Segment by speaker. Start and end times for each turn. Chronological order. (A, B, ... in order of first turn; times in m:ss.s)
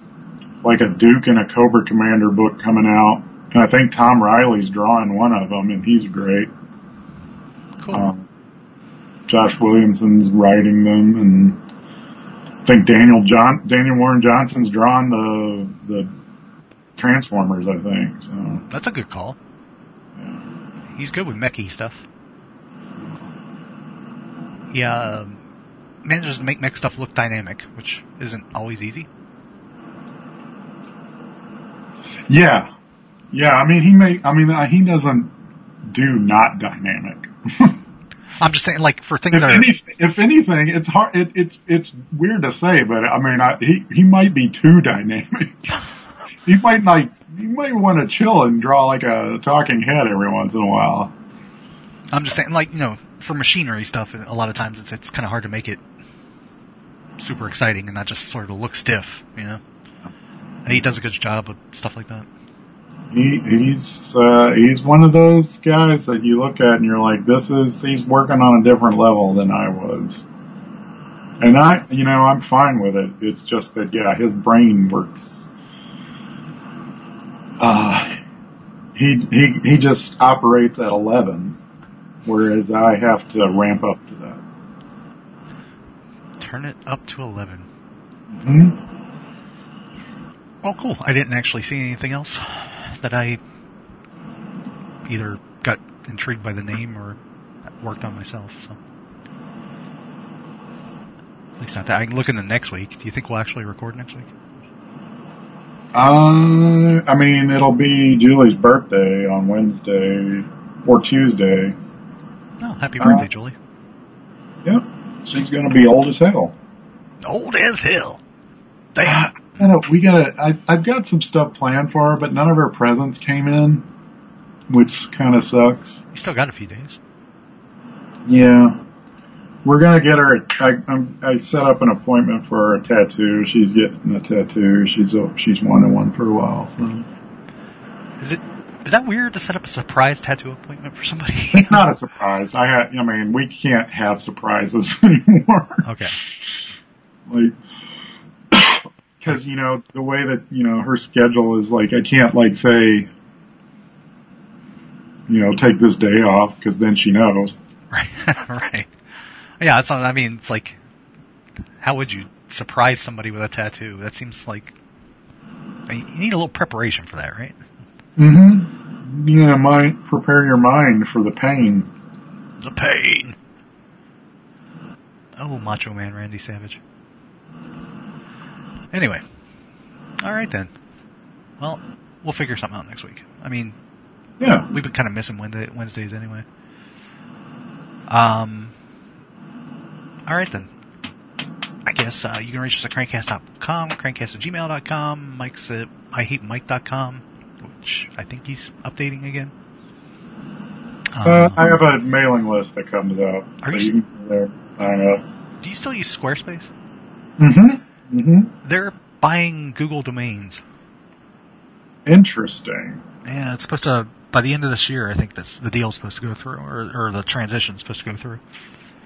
0:00.6-0:06.5 A
0:07.8-0:08.1 B
0:07.9-0:08.2 A
0:09.3-0:11.6 A
0:12.6-0:16.1 A
0:17.0-0:18.6 A
0:18.7-0:19.4 B
0:20.2-0:20.4 A
0:20.9-0:22.0 B
0:23.0-0:23.2 A
0:24.7-0:25.4 B
0:26.0-0:29.1 B
0:32.3-0:32.7 A
0:33.3-0:35.3 A
0:35.8-0:37.8 A
0:38.4-0:39.7 B
0:39.3-0:45.7 A
0:46.4-0:51.1 A
0:52.1-0:55.8 B
0:57.2-0:59.6 B
1:00.6-1:02.3 B
1:03.1-1:10.3 A
1:11.4-1:15.5 A
1:17.6-1:18.2 A
1:18.9-1:21.6 A
1:22.2-1:24.4 A
1:26.4-1:27.7 B
1:28.3-1:28.8 A
1:30.6-1:33.4 B
1:35.0-1:37.2 B
1:37.8-1:38.8 B
1:41.6-1:44.3 B
1:45.9-1:51.7 A
1:52.6-1:53.5 B
1:54.6-1:56.5 A
1:57.2-1:58.2 B
1:58.9-1:59.3 B
1:59.0-2:03.8 A
2:04.7-2:06.0 A
2:06.1-2:07.0 B
2:08.3-2:08.8 A
2:09.6-2:17.1 A
2:18.2-2:21.8 B
2:21.5-2:26.4 A
2:25.8-2:26.2 B
2:27.3-2:27.5 A
2:28.5-2:33.1 A
2:35.3-2:37.6 A
2:37.9-2:38.9 B
2:39.6-2:40.8 B
2:41.8-2:44.7 B
2:45.9-2:47.6 B
2:48.2-2:51.9 A
2:52.6-2:53.4 B
2:55.4-2:56.8 B
2:58.9-2:59.2 B
3:00.2-3:00.7 B
3:01.6-3:03.8 B
3:04.4-3:04.7 A
3:04.7-3:06.4 B
3:08.1-3:08.7 B
3:10.2-3:10.7 B
3:11.8-3:19.5 B
3:21.1-3:21.8 B
3:21.2-3:25.2 A
3:23.6-3:23.9 B
3:25.6-3:26.7 B
3:27.4-3:28.5 A
3:28.6-3:30.6 B
3:32.0-3:33.0 A
3:33.2-3:38.4 B